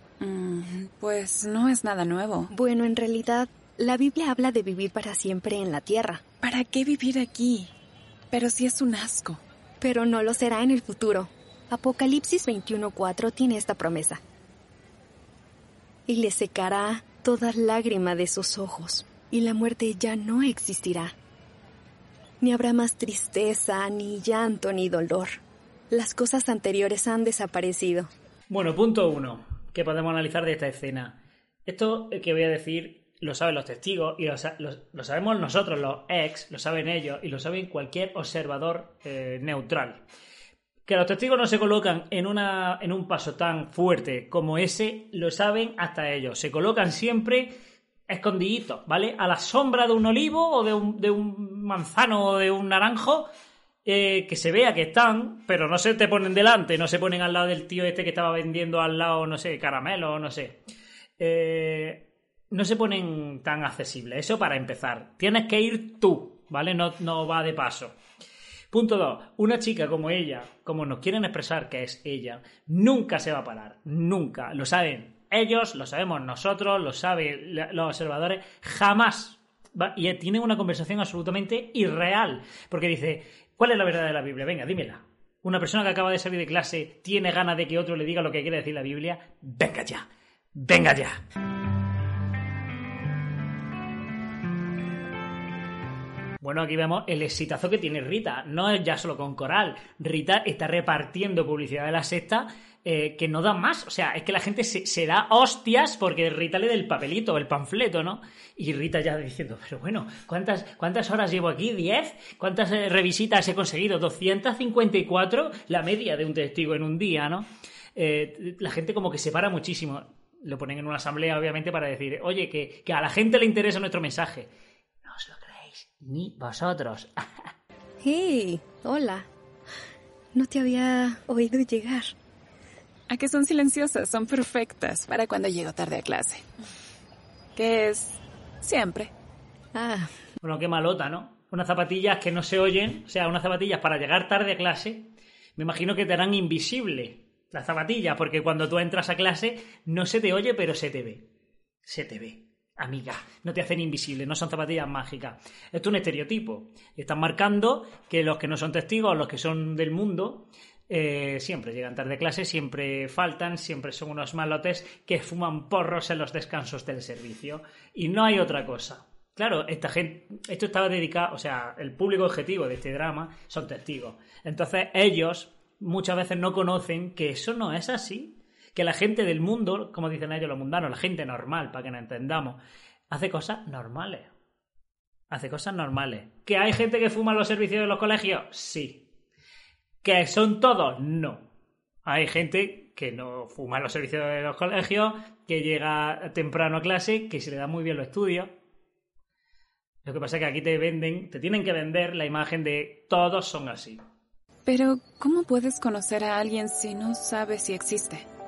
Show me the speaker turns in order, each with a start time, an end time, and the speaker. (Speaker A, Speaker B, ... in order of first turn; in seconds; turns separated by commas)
Speaker A: 0.2-2.5, Speaker B: 2.5-6.2, Speaker A: 6.4-7.7, Speaker A: 8.3-9.4, Speaker B: 9.8-14.2, Speaker B: 16.1-21.2, Speaker B: 22.4-28.1, Speaker C: 28.5-40.0, Speaker C: 40.9-47.5, Speaker C: 48.1-53.3, Speaker C: 53.9-60.6, Speaker C: 61.2-68.0, Speaker C: 68.7-91.2, Speaker C: 96.4-124.5, Speaker C: 125.0-127.3, Speaker B: 128.0-129.3, Speaker B: 130.3-132.2, Speaker A: 133.1-136.4, Speaker A: 137.6-139.1, Speaker B: 139.7-140.2, Speaker C: 140.4-151.3, Speaker C: 151.8-184.3, Speaker C: 185.3-189.0, Speaker C: 190.0-191.5, Speaker C: 192.1-198.6, Speaker C: 200.0-204.0, Speaker A: 204.7-208.3